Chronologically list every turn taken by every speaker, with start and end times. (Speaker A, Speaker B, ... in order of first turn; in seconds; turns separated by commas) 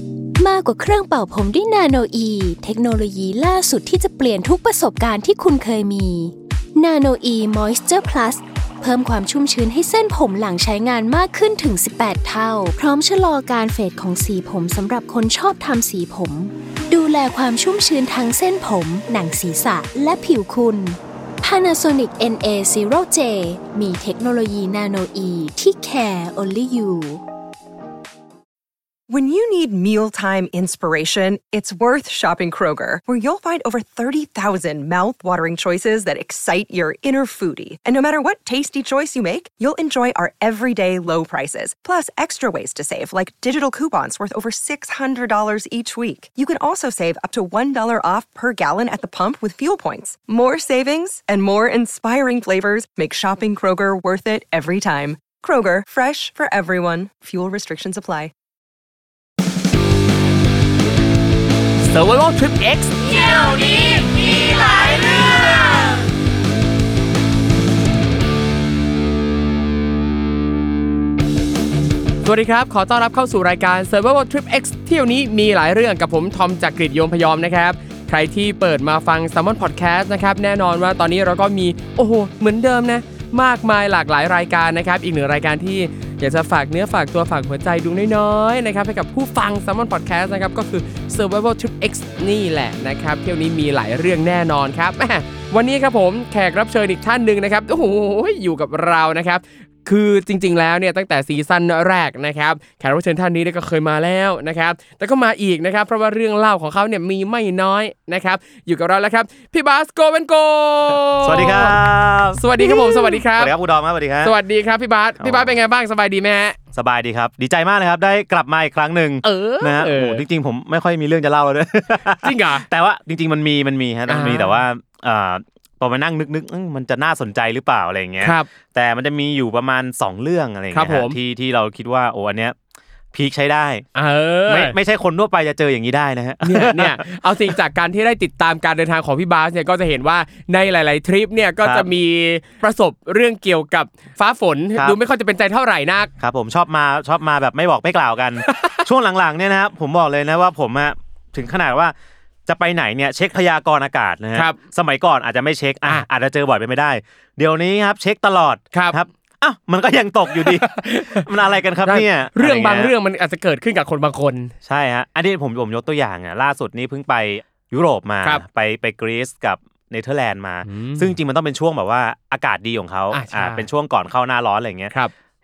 Speaker A: 0.4-27.2, Speaker B: 29.1-58.3, Speaker C: 61.8-65.3, Speaker C: 72.2-111.8, Speaker D: 111.2-114.3, Speaker C: 112.3-113.5, Speaker C: 114.2-116.6, Speaker D: 115.2-115.5, Speaker D: 116.7-132.6, Speaker C: 119.2-120.2, Speaker C: 122.2-122.7, Speaker C: 124.1-124.6, Speaker C: 128.2-128.5, Speaker C: 130.7-131.2, Speaker D: 133.1-133.8, Speaker C: 133.9-134.8, Speaker D: 134.5-137.0, Speaker C: 136.4-146.1, Speaker D: 141.6-141.9, Speaker D: 146.2-151.9, Speaker C: 148.5-148.8, Speaker D: 152.5-162.9, Speaker C: 158.7-159.0, Speaker C: 160.3-161.3, Speaker C: 161.8-164.5, Speaker D: 164.6-174.9, Speaker C: 170.6-171.2, Speaker C: 173.1-173.7